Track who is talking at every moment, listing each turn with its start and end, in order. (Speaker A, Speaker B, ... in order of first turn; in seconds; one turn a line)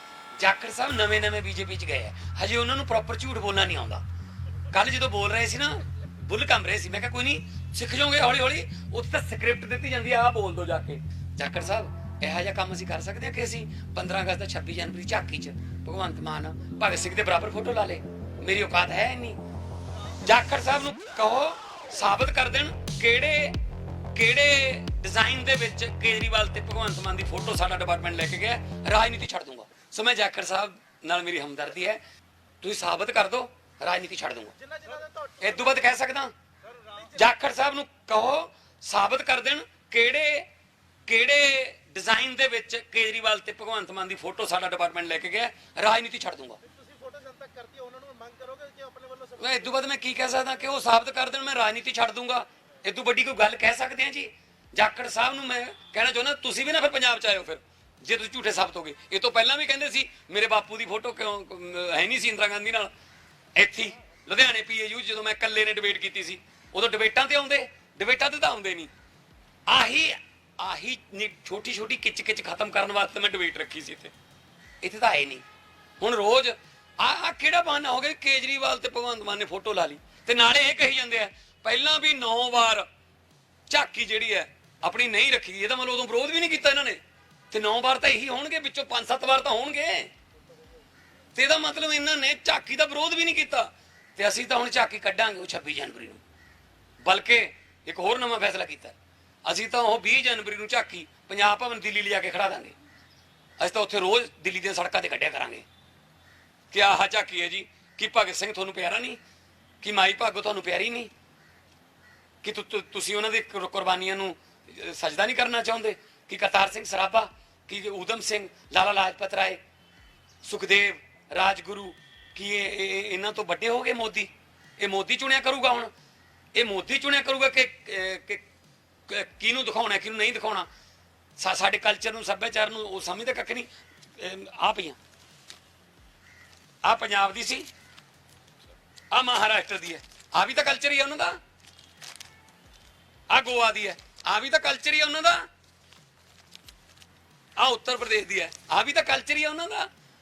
Speaker A: 0.3-4.0
Speaker A: 4.7-19.4
Speaker A: 20.2-23.6
Speaker A: 24.1-32.0
Speaker A: 32.6-34.6
Speaker B: 34.7-35.4
Speaker A: 35.4-36.3
Speaker B: 36.8-37.1
Speaker A: 37.1-40.5
Speaker A: 41.0-46.6
Speaker B: 46.7-49.4
Speaker A: 49.4-62.9
Speaker A: 63.5-68.9
Speaker A: 69.7-74.1
Speaker A: 74.8-75.4
Speaker A: 76.0-82.9
Speaker A: 83.7-87.0
Speaker A: 87.5-90.1
Speaker A: 91.3-96.2
Speaker A: 97.0-102.8
Speaker A: 103.6-105.7
Speaker A: 106.7-109.2
Speaker A: 109.8-111.1
Speaker A: 112.4-119.6
Speaker A: 120.4-125.9
Speaker A: 126.5-128.4
Speaker A: 129.1-130.7
Speaker A: 131.4-135.0
Speaker A: 136.8-137.7
Speaker A: 139.1-141.4
Speaker A: 143.3-145.5
Speaker A: 147.6-149.9